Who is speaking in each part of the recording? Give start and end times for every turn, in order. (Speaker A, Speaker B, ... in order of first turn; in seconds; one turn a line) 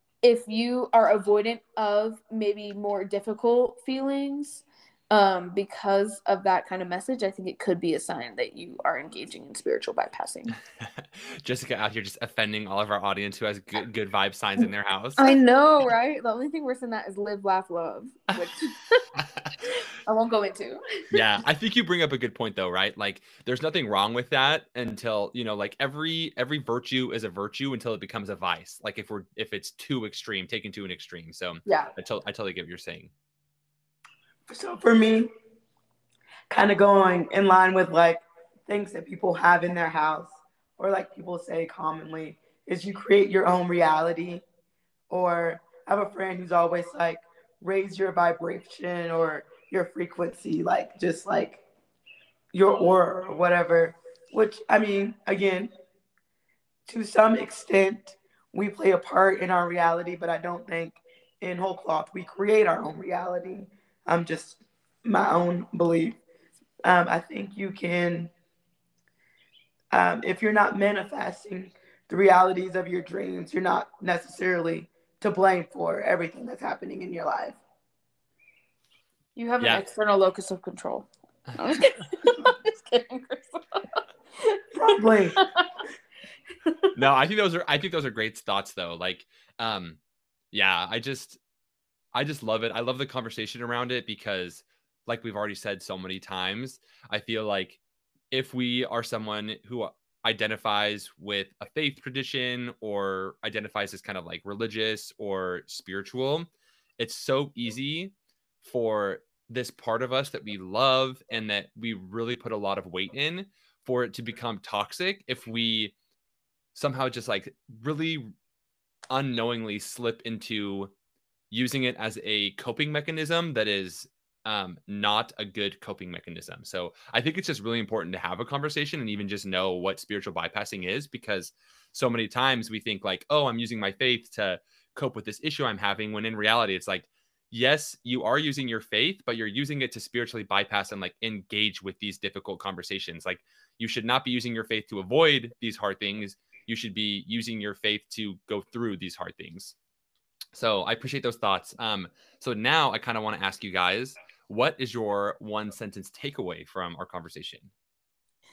Speaker A: 0.2-10.6
Speaker B: 11.0-15.4
Speaker A: 15.2-19.1
Speaker B: 19.2-19.5
Speaker A: 19.6-20.8
Speaker B: 21.1-33.1
Speaker A: 31.7-31.9
Speaker C: 34.5-35.3
Speaker C: 36.5-44.4
Speaker C: 45.1-51.6
Speaker C: 52.5-55.7
Speaker C: 56.9-66.2
Speaker C: 66.8-68.3
Speaker C: 69.9-77.6
Speaker A: 79.3-83.6
Speaker C: 84.7-85.4
Speaker A: 85.3-85.7
Speaker B: 87.0-90.0
Speaker B: 90.5-91.4
Speaker B: 92.1-97.8
Speaker B: 98.3-115.9
Speaker B: 116.7-118.3
Speaker B: 119.1-120.9
Speaker B: 121.5-149.8
Speaker B: 150.5-157.7